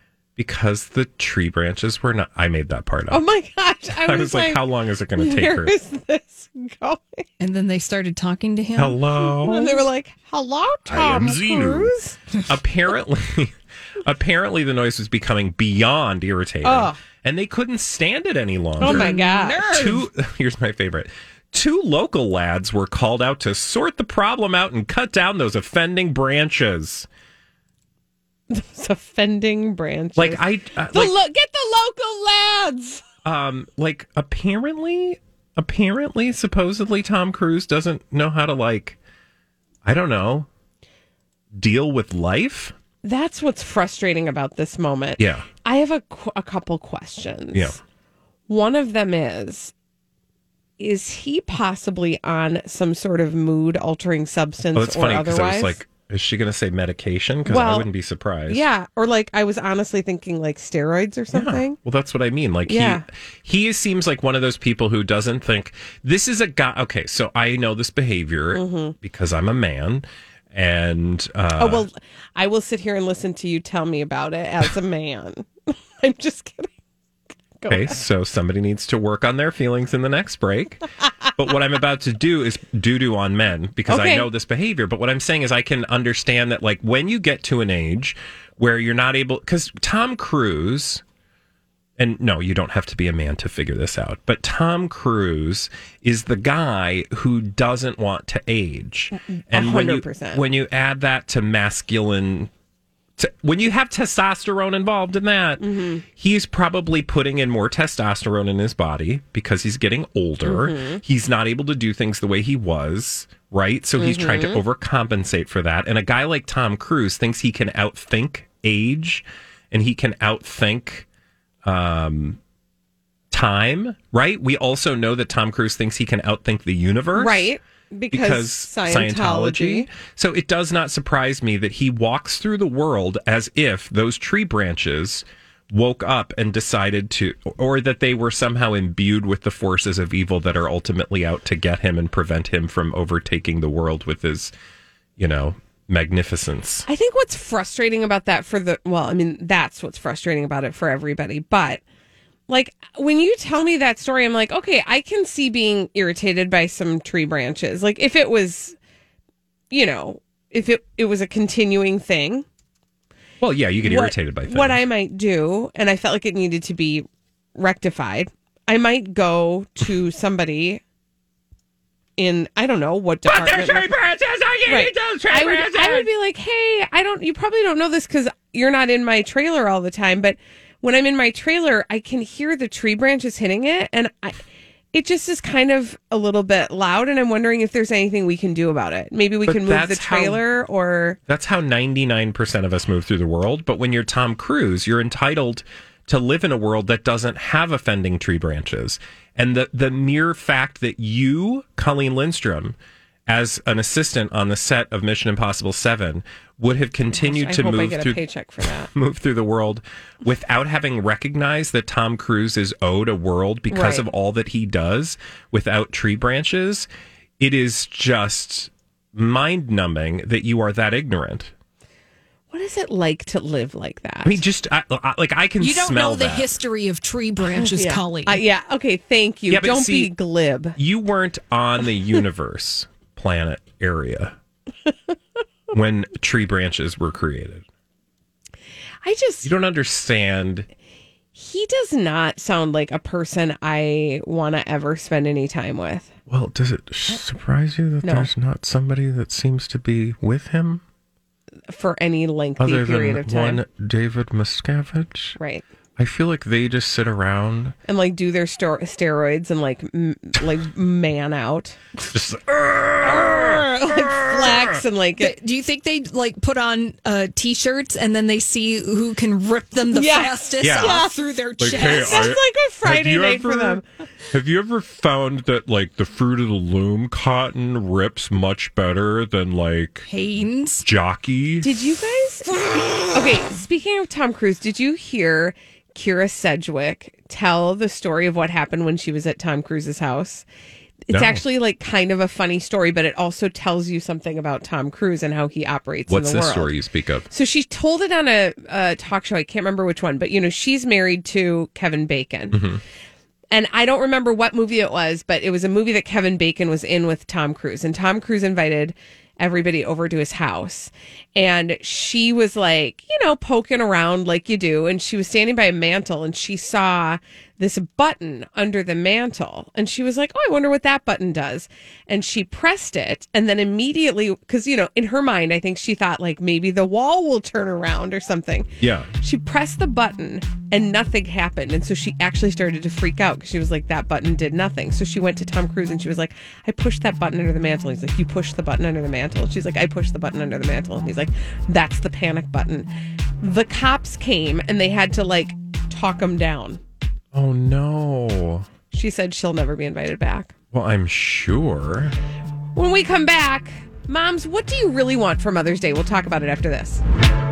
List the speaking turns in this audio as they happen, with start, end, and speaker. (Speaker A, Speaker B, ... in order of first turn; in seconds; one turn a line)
Speaker A: 0.4-3.2
Speaker B: 3.1-7.3
Speaker A: 4.0-5.7
Speaker C: 7.4-9.1
Speaker A: 8.8-9.8
Speaker B: 9.4-12.2
Speaker A: 10.9-11.9
Speaker A: 12.5-13.5
Speaker A: 14.1-27.1
Speaker B: 16.6-17.0
Speaker B: 18.8-19.7
Speaker C: 18.8-20.1
Speaker B: 28.5-33.0
Speaker A: 30.2-31.1
Speaker A: 33.2-39.0
Speaker A: 39.9-40.5
Speaker A: 41.5-42.7
Speaker B: 43.0-47.8
Speaker A: 45.2-45.5
Speaker B: 48.5-49.7
Speaker B: 50.8-55.8
Speaker A: 54.7-58.6
Speaker B: 57.5-57.9
Speaker B: 58.5-61.8
Speaker A: 61.3-71.9
Speaker B: 62.7-63.0
Speaker B: 68.5-69.0
Speaker B: 71.6-76.7
Speaker B: 77.6-78.0
Speaker A: 77.7-80.8
Speaker A: 81.4-91.0
Speaker B: 83.9-84.3
Speaker A: 92.0-102.5
Speaker B: 99.5-100.4
Speaker A: 103.2-121.1
Speaker B: 105.6-106.0
Speaker B: 110.4-111.0
Speaker B: 114.0-114.6
Speaker A: 121.7-122.4
Speaker A: 123.3-127.5
Speaker B: 127.2-129.9
Speaker A: 128.1-144.5
Speaker A: 145.2-146.9
Speaker B: 146.9-151.8
Speaker B: 152.5-158.8
Speaker B: 159.7-162.4
Speaker A: 163.4-164.8
Speaker B: 163.8-170.8
Speaker B: 172.2-173.9
Speaker A: 173.3-176.1
Speaker B: 174.7-184.4
Speaker B: 184.9-191.2
Speaker A: 189.5-190.4
Speaker A: 191.3-202.8
Speaker A: 203.3-208.2
Speaker B: 207.2-208.9
Speaker A: 208.9-216.9
Speaker B: 213.7-214.1
Speaker A: 217.4-221.5
Speaker B: 222.5-224.4
Speaker A: 224.2-226.5
Speaker C: 225.6-228.4
Speaker B: 227.5-230.8
Speaker A: 229.5-230.1
Speaker A: 230.8-234.3
Speaker A: 235.7-237.6
Speaker B: 239.0-239.5
Speaker A: 239.4-240.7
Speaker B: 241.3-246.1
Speaker A: 246.3-250.8
Speaker B: 248.0-248.3
Speaker B: 251.7-253.6
Speaker A: 252.6-255.4
Speaker B: 255.4-255.7
Speaker A: 256.0-257.8
Speaker B: 257.9-261.8
Speaker A: 262.1-264.6
Speaker B: 263.0-265.4
Speaker C: 265.2-272.3
Speaker B: 269.9-273.8
Speaker A: 270.6-271.0
Speaker A: 271.6-280.1
Speaker C: 280.1-280.9
Speaker A: 280.8-281.8
Speaker B: 281.6-282.5
Speaker B: 283.1-290.4
Speaker B: 291.1-296.7
Speaker A: 291.1-291.4
Speaker A: 296.1-297.3
Speaker B: 297.3-302.6
Speaker A: 302.5-302.8
Speaker B: 303.5-342.9
Speaker A: 328.8-329.1
Speaker B: 343.4-346.8
Speaker A: 347.3-348.7
Speaker B: 348.9-350.6
Speaker A: 350.7-352.1
Speaker B: 352.8-357.0